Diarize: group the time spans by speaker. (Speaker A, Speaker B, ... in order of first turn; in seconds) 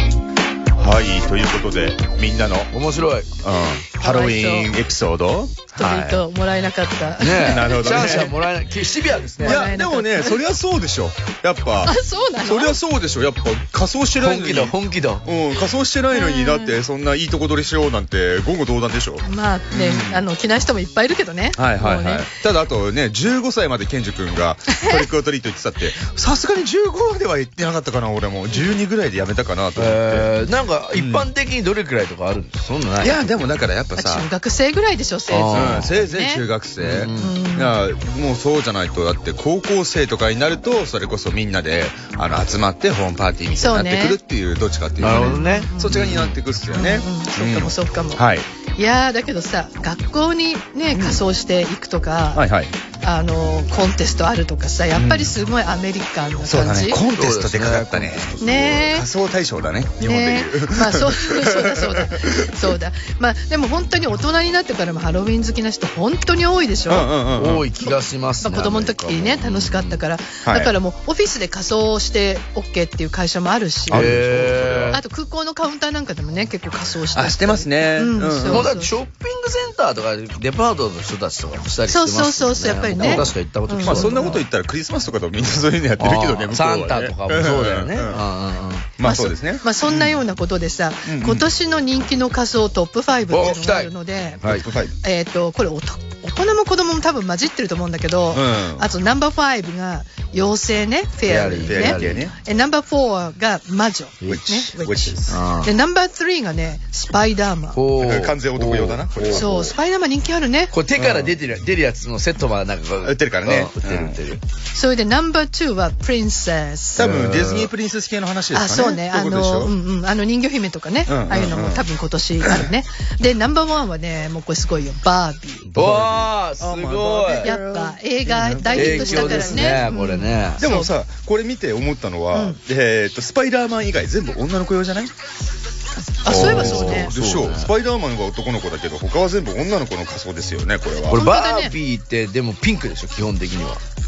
Speaker A: 0.8-2.7, 3.4-6.2, 7.4-8.3, 9.4-20.2, 21.6-30.3, 30.9-31.3, 33.0-34.3, 35.5-48.5, 50.9-51.2, 52.3-52.7, 54.9-55.3, 56.4-62.7, 66.9-67.7, 70.4-70.7, 73.9-75.0, 77.1-78.7, 83.0-83.3, 83.8-88.2, 89.0-90.2, 91.0-91.5, 94.4-94.9, 98.3-98.9, 101.6-102.3, 104.3-105.3, 108.0-109.7, 111.0-111.3, 113.0-114.2, 117.0-119.7, 121.1-121.8, 125.7-129.9, 130.6-135.1, 136.2-141.2
Speaker B: 2.7-3.3, 7.2-9.7, 14.2-15.2, 29.8-33.3, 35.3-35.9, 36.8-37.3, 45.0-46.3, 57.1-58.3, 67.3-70.0, 73.9-75.0, 78.5-84.4, 86.0-88.9, 93.3-94.7, 101.2-102.2, 105.3-105.7, 107.7-109.5, 110.7-114.4, 117.0-117.7, 125.8-127.5, 128.7-130.6, 136.2-137.7, 141.1-143.8
Speaker C: 4.0-4.7, 5.7-8.3, 9.4-10.4, 11.8-12.8, 16.1-16.7, 19.2-22.3, 34.0-36.4, 37.2-37.8, 43.5-44.2, 45.0-46.0, 46.7-48.2, 48.8-52.4, 53.0-57.0, 58.4-59.1, 60.0-67.1, 67.8-74.0, 74.9-78.9, 81.9-84.4, 89.0-94.4, 95.0-107.8, 109.3-110.7, 114.7-117.0, 118.5-125.7, 127.4-130.9, 132.3-132.6, 136.2-137.1, 141.1-141.7